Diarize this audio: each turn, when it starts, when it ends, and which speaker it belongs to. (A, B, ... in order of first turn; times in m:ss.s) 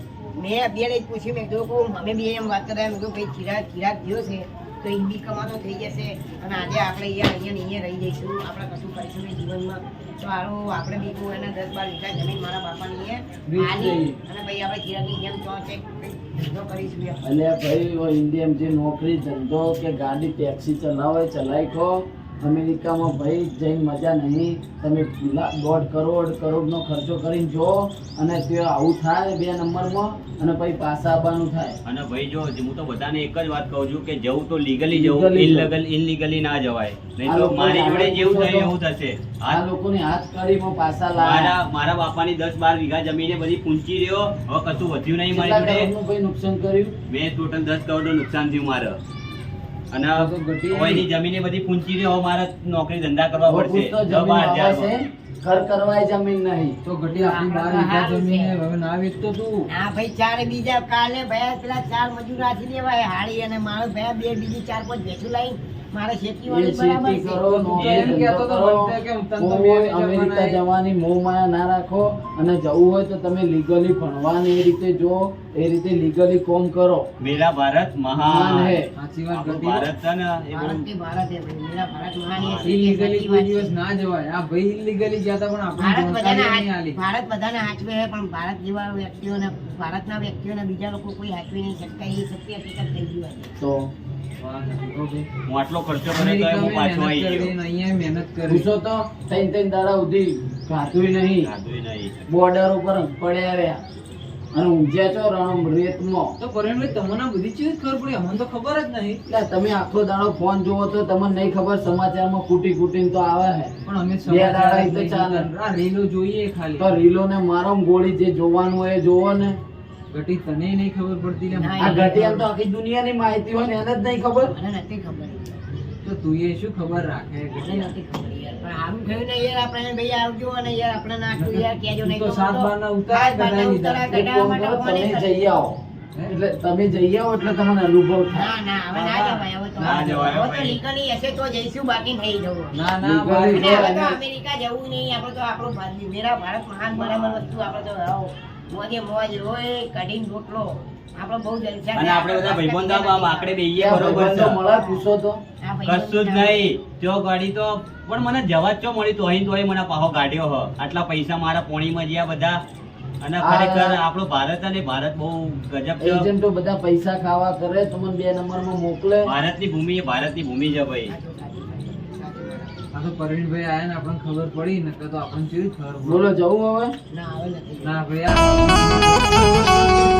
0:00.4-0:17.2 A
0:13.5-0:14.2 B
0:17.2-0:31.8 C
0:31.9-0:39.6 D
0:34.9-0:35.7 C
0:37.2-0:38.8 C
0:39.5-0:41.6 C
0:41.2-0:45.9 D
0:45.3-0:46.9 C
0:47.1-0:49.0 D
0:49.9-0:54.9 D
0:50.2-0:51.1 B
0:53.5-0:56.8 C
0:56.8-0:59.7 B
0:57.1-0:58.6 A
0:59.7-1:07.7 A
1:06.5-1:17.0 C
1:07.5-1:10.6 B
1:07.7-1:08.2 D
1:17.2-1:18.8 D
1:18.2-1:18.9 C
1:19.0-1:19.9 B
1:19.3-1:20.8 D
1:20.5-1:23.8 A
1:22.3-1:22.8 D
1:22.6-1:27.0 B
1:25.8-1:33.5 A
1:33.6-1:33.9 C
1:34.4-1:35.3 B
1:35.5-1:37.6 D
1:36.1-1:38.7 B
1:38.5-1:41.5 C
1:41.4-1:42.3 D
1:42.3-1:43.8 C
1:44.5-1:46.4 C
1:46.4-1:49.2 B
1:49.3-1:53.7 C
1:53.8-1:56.9 B
1:54.2-1:55.5 C
1:56.8-1:59.6 C
2:00.1-2:02.1 B
2:01.5-2:02.5 A
2:01.8-2:04.5 C
2:04.4-2:05.6 A
2:06.0-2:07.9 B
2:07.6-2:15.6 A
2:11.4-2:14.1 B
2:14.1-2:15.8 C
2:16.3-2:18.5 C
2:17.4-2:17.6 A
2:18.3-2:22.8 A
2:18.9-2:20.4 B
2:19.8-2:20.8 D
2:22.7-2:23.8 B
2:23.0-2:24.2 C
2:23.5-2:33.6 A
2:26.9-2:27.8 D
2:32.0-2:34.6 D
2:33.8-2:35.4 C
2:34.6-2:35.0 A
2:35.6-2:36.7 A
2:35.9-2:42.6 D
2:43.2-2:46.3 D
2:43.4-2:44.0 C
2:46.0-2:49.3 C
2:49.2-2:51.1 D
2:51.1-2:52.8 A
2:52.9-2:56.2 B
2:56.0-2:56.9 C
2:57.1-2:58.0 A
2:57.8-2:59.7 B
2:58.6-2:59.9 A